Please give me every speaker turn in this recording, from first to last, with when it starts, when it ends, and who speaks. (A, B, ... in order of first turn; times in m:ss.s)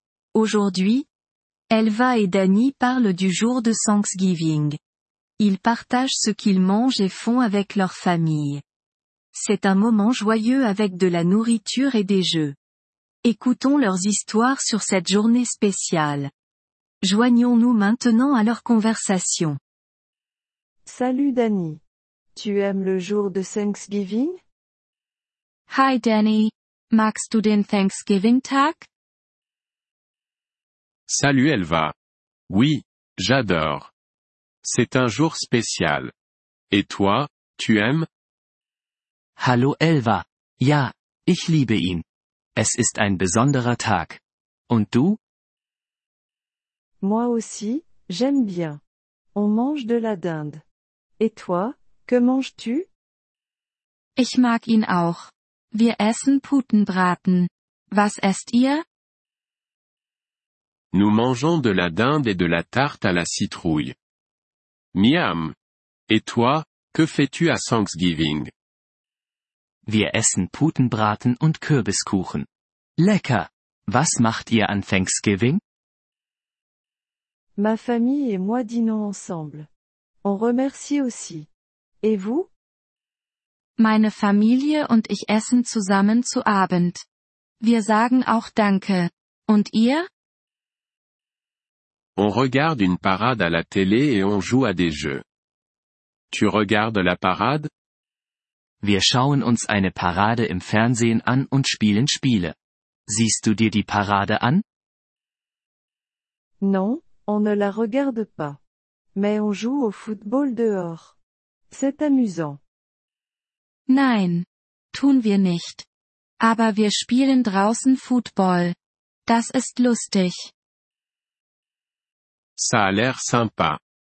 0:00.3-0:01.1 A
0:01.7-0:04.8 A
0:05.4-0:08.6 A
0:09.3-0:12.6 A
0:13.2-0:16.3 A
0:17.0-0:19.6 A
0:20.9-0:21.8 B
0:22.4-0:24.4 B
0:25.7-0:28.9 A
0:31.1-0:31.9 C
0:32.5-0:33.9 C
0:34.6-0:36.1 C
0:36.7-0:38.0 C
0:39.4-0:42.0 D
0:42.6-0:45.2 D
0:47.0-0:48.8 B
0:49.3-0:50.6 B
0:51.2-0:52.9 B
0:54.2-0:58.8 A
1:00.9-1:03.9 C
1:04.9-1:05.6 C
1:06.1-1:08.5 C
1:09.9-1:12.5 D
1:13.0-1:15.6 D
1:17.6-1:19.7 B
1:20.2-1:21.5 B
1:22.0-1:22.5 B
1:23.8-1:27.0 A
1:27.6-1:30.1 A
1:32.2-1:35.2 C
1:36.3-1:37.7 C
1:38.8-1:42.6 D
1:43.1-1:44.6 D
1:46.6-1:48.6 B
1:49.1-1:51.2 B
1:51.7-1:52.6 B
1:53.9-1:55.9 A
1:56.4-1:58.8 A
1:59.3-2:00.5 A
2:02.6-2:03.8 C